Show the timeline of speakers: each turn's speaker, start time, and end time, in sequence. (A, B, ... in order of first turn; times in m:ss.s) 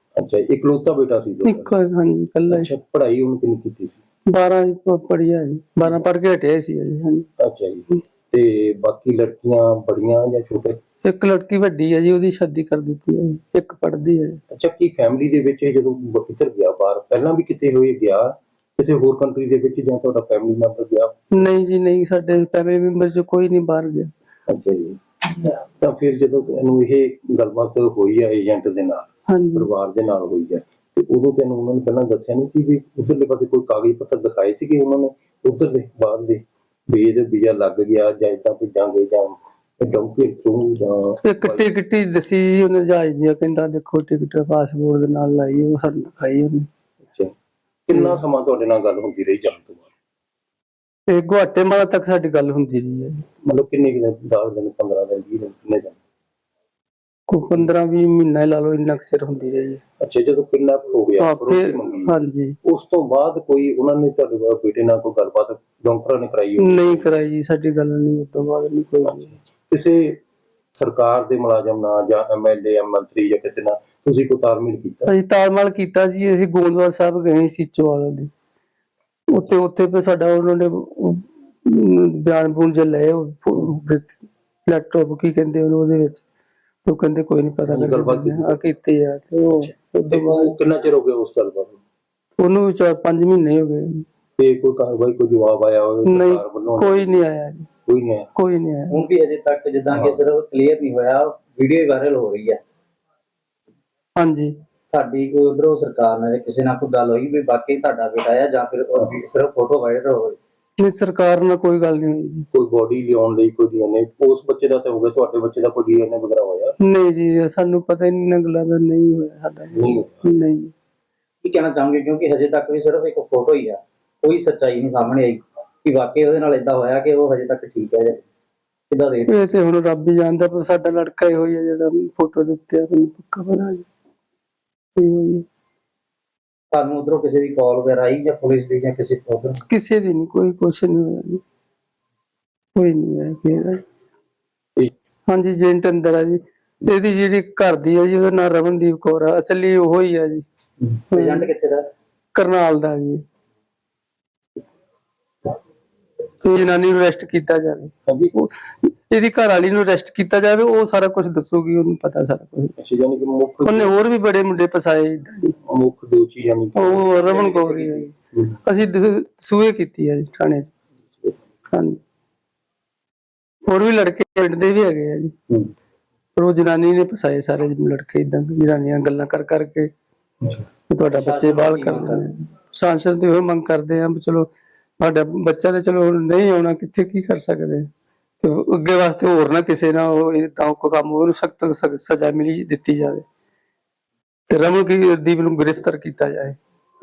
0:00.2-0:01.7 A
0:01.4-0:02.7 B
0:02.5-0:04.0 A
0:04.3-0:07.3 B
0:07.4-0:10.8 A
0:11.0-0:14.4 B
0:14.5-0:21.3 A
0:21.3-0:24.1 B
0:24.5-0:41.7 A
0:29.3-0:29.7 B
0:41.2-0:46.7 B
0:47.9-0:49.9 A
0:51.1-0:53.2 B
0:53.5-0:56.0 A
0:57.3-0:59.8 B
1:00.0-1:02.1 A
1:01.2-1:02.6 B
1:02.6-1:07.1 A
1:06.6-1:09.4 B
1:09.7-1:10.2 A
1:10.7-1:15.1 A
1:15.0-1:18.3 B
1:19.3-1:26.2 B
1:26.8-1:30.5 B
1:27.7-1:28.6 A
1:30.1-1:31.8 A
1:32.4-1:34.0 B
1:34.4-1:37.1 A
1:36.0-1:37.7 B
1:37.9-1:38.3 A
1:38.4-1:39.0 B
1:38.9-1:42.6 C
1:39.9-1:40.2 A
1:44.2-1:44.5 B
1:44.9-1:50.4 C
1:50.8-1:52.5 B
1:52.5-1:56.7 A
1:56.8-2:00.7 B
1:59.7-2:00.2 A
2:01.4-2:08.2 C
2:08.9-2:09.4 C
2:09.2-2:13.9 B
2:15.0-2:15.4 B
2:16.7-2:19.6 C
2:19.7-2:21.4 B
2:22.7-2:23.8 B
2:25.3-2:30.4 B
2:30.9-2:31.9 C
2:31.1-2:31.5 B
2:32.3-2:33.2 B
2:36.4-2:42.7 B
2:38.1-2:38.3 A
2:42.8-2:43.9 A
2:43.6-2:45.5 B
2:45.6-2:47.2 A
2:46.8-2:48.1 B
2:47.1-2:48.1 C
2:48.6-2:50.7 B
2:51.7-2:52.0 B
2:53.6-2:55.3 B
2:56.4-2:59.9 B
3:00.9-3:04.5 B
3:01.1-3:02.3 C
3:05.0-3:07.9 B
3:08.4-3:13.2 B
3:14.5-3:16.6 B